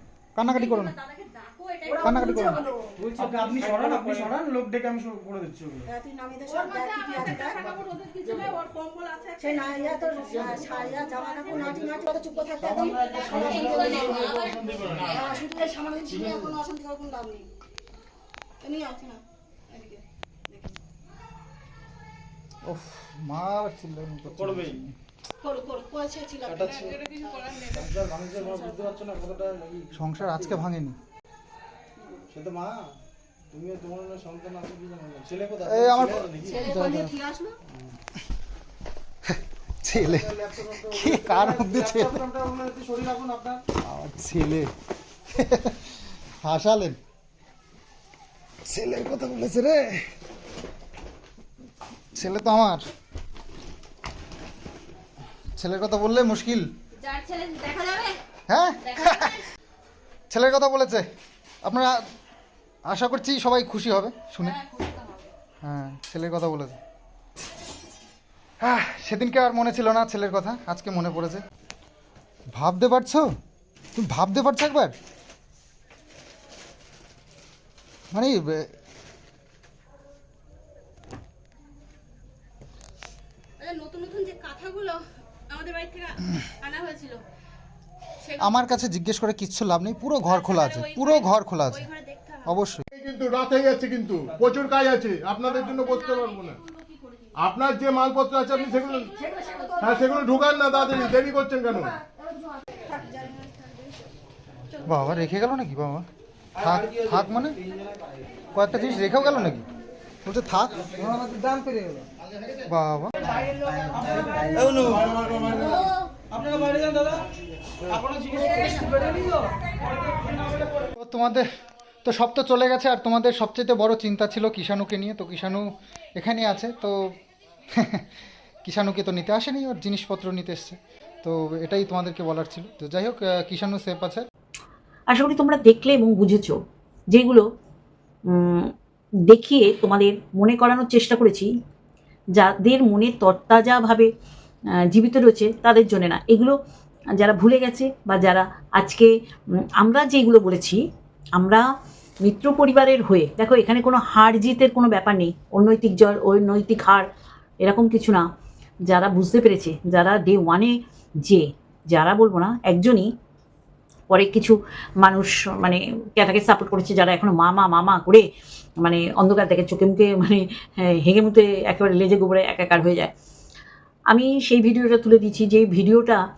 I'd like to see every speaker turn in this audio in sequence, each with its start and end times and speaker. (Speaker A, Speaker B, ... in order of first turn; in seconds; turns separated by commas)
Speaker A: 0.4-1.0, Speaker B: 0.6-2.9, Speaker A: 2.0-2.6, Speaker C: 3.0-5.9, Speaker B: 5.9-17.5, Speaker C: 10.3-10.6, Speaker C: 11.5-11.8, Speaker C: 12.6-15.4, Speaker B: 18.6-20.8, Speaker A: 22.7-24.9, Speaker C: 24.2-24.8, Speaker B: 25.4-27.7, Speaker C: 26.5-30.6, Speaker B: 28.5-28.9, Speaker A: 29.9-31.0, Speaker B: 32.0-32.3, Speaker C: 32.3-32.9, Speaker C: 33.5-36.7, Speaker A: 35.7-37.1, Speaker B: 36.5-37.6, Speaker A: 39.8-40.4, Speaker C: 39.9-43.6, Speaker A: 40.9-42.2, Speaker A: 43.8-44.7, Speaker A: 45.4-45.8, Speaker A: 46.4-47.0, Speaker A: 48.7-49.9, Speaker A: 52.1-52.8, Speaker A: 55.6-56.7, Speaker B: 57.0-58.2, Speaker A: 58.5-59.4, Speaker A: 60.3-61.1, Speaker A: 61.6-62.0, Speaker A: 62.9-64.6, Speaker B: 64.5-65.2, Speaker A: 65.6-66.8, Speaker A: 68.6-71.4, Speaker A: 72.5-73.3, Speaker A: 74.0-75.0, Speaker A: 78.1-78.7, Speaker B: 83.6-87.2, Speaker B: 88.2-88.8, Speaker A: 88.4-91.9, Speaker B: 90.3-92.5, Speaker A: 92.5-92.8, Speaker D: 92.9-96.6, Speaker B: 96.8-97.3, Speaker D: 97.4-99.2, Speaker B: 99.3-99.7, Speaker D: 99.8-102.0, Speaker B: 103.1-103.6, Speaker A: 104.9-106.1, Speaker A: 106.6-107.6, Speaker C: 106.6-108.0, Speaker A: 108.5-109.7, Speaker A: 110.2-111.0, Speaker C: 111.0-112.0, Speaker A: 112.7-114.1, Speaker C: 113.9-115.8, Speaker C: 116.3-117.3, Speaker C: 117.8-120.8, Speaker A: 121.0-121.5, Speaker A: 122.0-127.2, Speaker A: 127.7-128.1, Speaker A: 128.7-134.2, Speaker E: 135.1-136.6, Speaker E: 137.1-137.4, Speaker E: 138.3-138.7, Speaker E: 139.3-141.5, Speaker E: 142.4-144.1, Speaker E: 144.8-146.6, Speaker E: 147.2-150.8, Speaker E: 151.4-151.7, Speaker E: 152.2-157.1, Speaker E: 157.6-158.2, Speaker E: 158.9-163.1, Speaker E: 164.1-168.2, Speaker E: 168.8-173.1, Speaker E: 174.1-176.2